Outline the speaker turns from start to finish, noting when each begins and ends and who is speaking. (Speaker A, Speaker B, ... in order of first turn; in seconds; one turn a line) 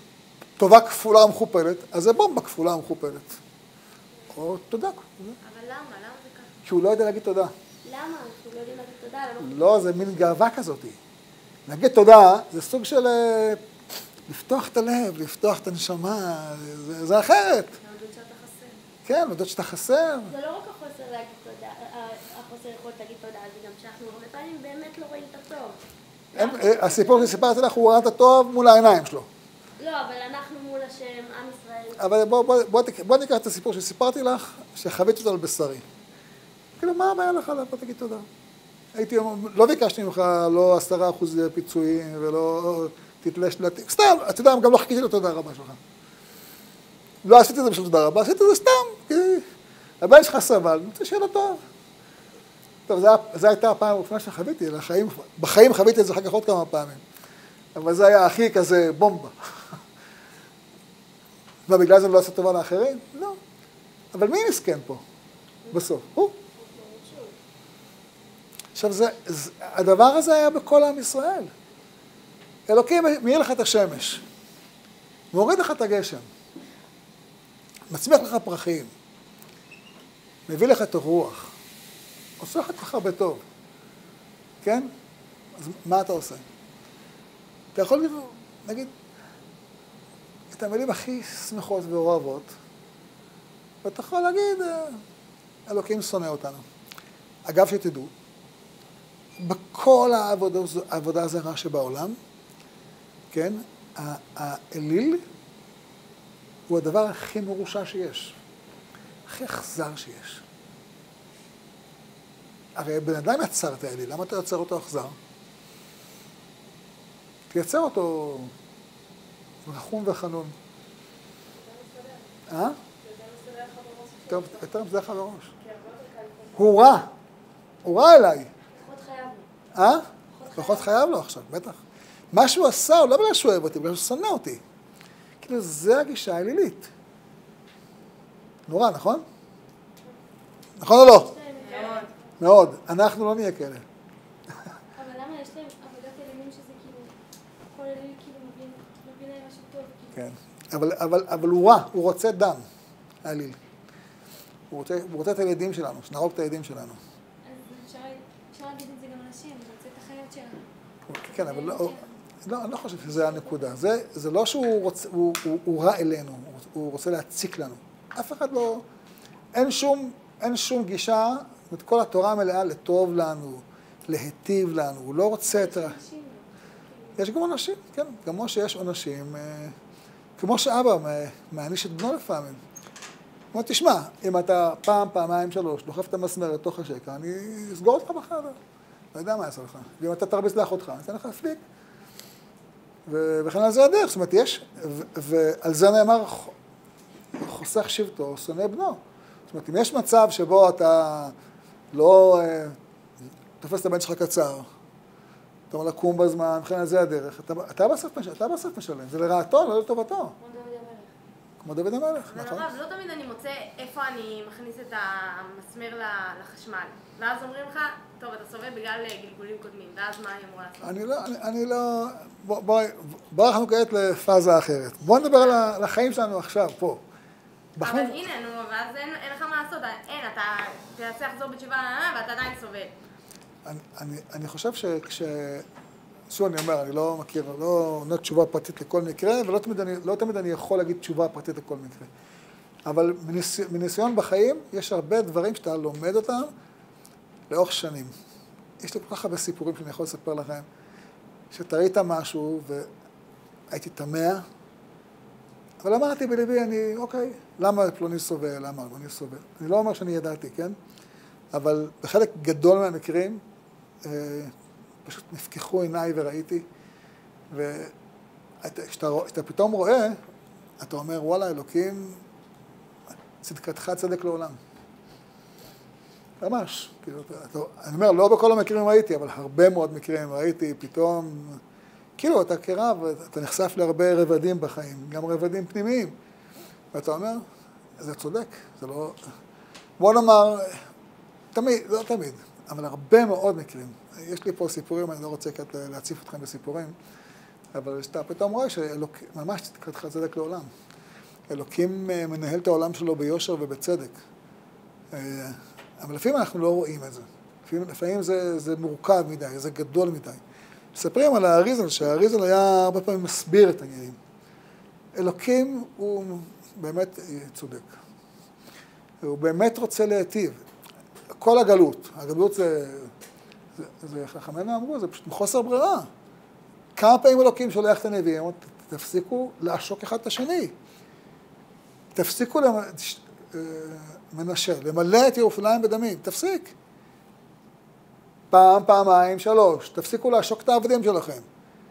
Speaker A: 0.6-3.4
Speaker A: 4.3-5.4
Speaker B: 5.4-6.5
Speaker A: 6.6-7.5
Speaker C: 7.8-10.2
Speaker A: 9.4-11.0
Speaker A: 11.7-13.6
Speaker A: 14.3-17.8
Speaker C: 17.8-18.8
Speaker A: 19.1-20.3
Speaker C: 20.3-25.8
Speaker C: 26.3-27.5
Speaker A: 26.3-29.3
Speaker C: 29.8-32.0
Speaker A: 32.0-35.8
Speaker A: 36.8-38.2
Speaker A: 38.9-45.8
Speaker A: 47.2-49.5
Speaker A: 50.0-51.6
Speaker A: 52.9-57.0
Speaker A: 57.7-59.8
Speaker A: 61.7-63.4
Speaker A: 64.1-65.0
Speaker A: 65.7-66.3
Speaker C: 66.6-67.3
Speaker A: 68.7-71.5
Speaker A: 72.7-74.2
Speaker A: 75.3-76.3
Speaker A: 77.9-78.9
Speaker A: 80.5-81.5
Speaker A: 82.4-83.4
Speaker A: 84.6-84.9
Speaker A: 85.5-86.4
Speaker A: 87.7-88.9
Speaker A: 90.5-92.5
Speaker A: 93.8-95.0
Speaker A: 95.7-96.6
Speaker A: 97.5-98.1
Speaker A: 99.4-102.2
Speaker A: 103.3-105.2
Speaker A: 106.7-108.4
Speaker A: 109.3-110.4
Speaker A: 112.8-115.2
Speaker A: 117.5-118.5
Speaker A: 119.6-120.5
Speaker C: 121.6-122.3
Speaker A: 122.5-122.8
Speaker C: 123.0-124.5
Speaker A: 124.3-125.5
Speaker C: 125.7-126.4
Speaker A: 126.5-127.1
Speaker A: 127.8-128.5
Speaker C: 128.7-129.5
Speaker A: 129.7-131.8
Speaker C: 130.3-130.9
Speaker A: 132.3-134.6
Speaker A: 135.4-136.9
Speaker A: 138.7-139.2
Speaker A: 140.8-141.3
Speaker C: 140.9-142.3
Speaker B: 141.6-142.1
Speaker A: 142.4-143.8
Speaker C: 144.9-147.2
Speaker C: 147.7-150.2
Speaker A: 150.1-152.6
Speaker A: 153.2-153.6
Speaker A: 154.7-157.0
Speaker C: 157.4-160.7
Speaker A: 161.1-168.8
Speaker C: 161.3-162.0
Speaker A: 169.5-176.0
Speaker C: 175.5-177.2
Speaker A: 177.2-179.7
Speaker A: 180.4-182.6
Speaker A: 183.5-188.6
Speaker A: 189.1-191.6
Speaker A: 193.1-196.5
Speaker A: 197.4-201.3
Speaker A: 201.9-202.8
Speaker A: 203.6-204.7
Speaker A: 205.7-210.3
Speaker C: 210.4-211.1
Speaker A: 211.6-212.7
Speaker B: 212.3-221.0
Speaker A: 220.8-227.0
Speaker B: 225.3-225.6
Speaker A: 227.8-228.2
Speaker B: 227.8-232.9
Speaker A: 233.6-235.7
Speaker A: 236.3-242.1
Speaker A: 242.9-246.5
Speaker A: 247.5-248.1
Speaker A: 248.8-250.7
Speaker A: 251.5-252.9
Speaker A: 253.7-254.4
Speaker A: 255.8-260.8
Speaker A: 261.5-263.4
Speaker A: 264.0-264.5
Speaker A: 265.0-266.6
Speaker A: 267.5-267.9
Speaker A: 268.6-270.2
Speaker A: 270.8-272.2
Speaker A: 273.4-274.6
Speaker A: 276.4-281.6
Speaker A: 282.2-286.1
Speaker A: 286.9-287.4
Speaker A: 288.0-289.2
Speaker A: 290.0-290.8
Speaker A: 291.5-296.9
Speaker A: 297.7-300.7
Speaker A: 301.5-304.2
Speaker A: 305.1-310.4
Speaker A: 310.9-314.2
Speaker A: 315.1-317.9
Speaker A: 319.2-320.6
Speaker A: 321.4-323.1
Speaker A: 323.8-326.1
Speaker A: 326.9-330.7
Speaker A: 332.1-336.7
Speaker A: 338.5-341.4